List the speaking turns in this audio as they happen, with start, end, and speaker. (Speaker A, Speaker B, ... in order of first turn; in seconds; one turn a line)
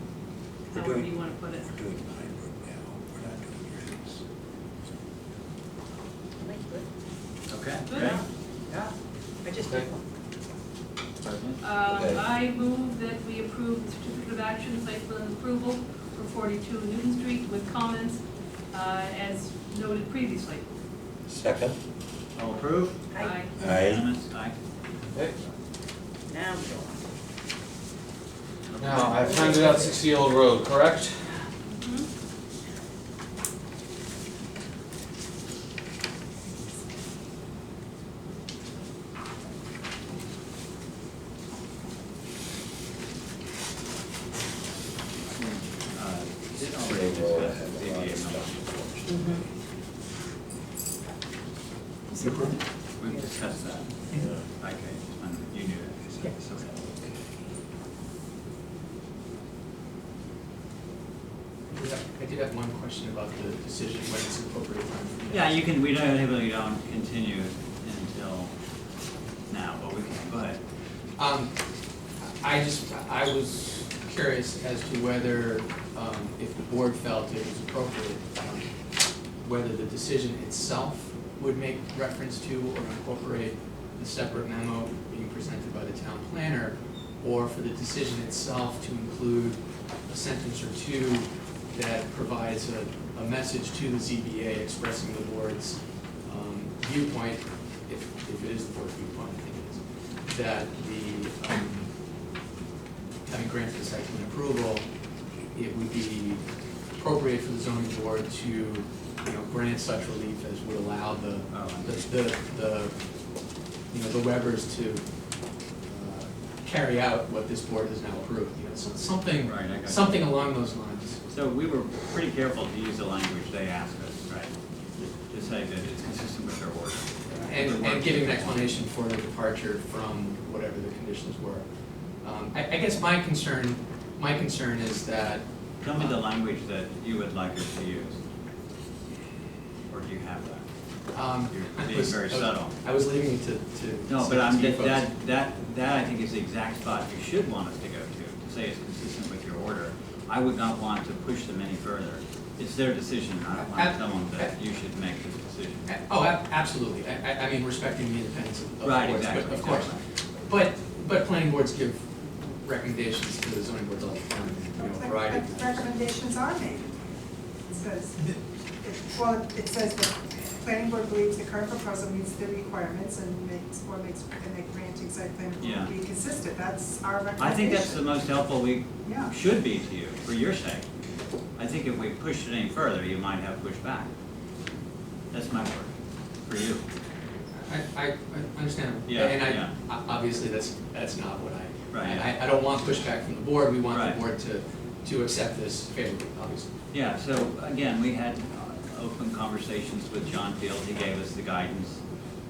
Speaker A: 0.7-1.8
Speaker B: 0.7-4.2
Speaker C: 6.4-6.9
Speaker D: 7.5-8.9
Speaker C: 7.9-8.2
Speaker C: 9.4-10.0
Speaker D: 11.2-11.6
Speaker A: 11.6-18.2
Speaker B: 11.8-12.3
Speaker A: 18.7-20.6
Speaker B: 21.3-21.8
Speaker D: 22.3-23.0
Speaker C: 23.1-23.4
Speaker A: 23.1-23.5
Speaker D: 23.6-24.6
Speaker B: 23.6-24.0
Speaker C: 26.3-27.0
Speaker D: 28.7-29.6
Speaker E: 28.8-31.2
Speaker C: 29.2-30.0
Speaker A: 31.7-32.1
Speaker D: 45.2-48.8
Speaker B: 46.5-49.5
Speaker C: 49.1-49.4
Speaker F: 52.1-52.5
Speaker G: 52.2-52.6
Speaker D: 53.0-54.0
Speaker B: 54.1-54.5
Speaker D: 54.5-56.7
Speaker B: 56.1-57.3
Speaker G: 61.7-65.6
Speaker D: 65.3-68.5
Speaker D: 69.5-70.6
Speaker G: 71.2-71.5
Speaker G: 72.2-78.7
Speaker G: 79.4-101.9
Speaker G: 103.3-104.9
Speaker G: 105.5-106.4
Speaker G: 107.0-113.0
Speaker D: 111.5-112.1
Speaker G: 113.9-115.0
Speaker G: 115.8-121.2
Speaker D: 119.4-120.3
Speaker D: 121.3-124.5
Speaker D: 125.2-128.8
Speaker G: 127.4-131.7
Speaker G: 132.2-136.2
Speaker D: 135.8-138.2
Speaker D: 139.9-140.7
Speaker G: 141.1-145.1
Speaker D: 141.3-142.8
Speaker D: 144.1-155.9
Speaker G: 153.5-154.5
Speaker G: 155.8-165.8
Speaker D: 158.8-160.0
Speaker F: 164.7-167.1
Speaker F: 167.7-178.1
Speaker D: 175.6-175.9
Speaker D: 177.4-180.8
Speaker F: 179.1-179.3
Speaker D: 181.6-184.1
Speaker D: 185.3-185.9
Speaker D: 186.4-186.8
Speaker G: 187.6-196.7
Speaker D: 189.1-189.7
Speaker D: 191.9-192.3
Speaker D: 193.9-194.2
Speaker D: 196.9-202.0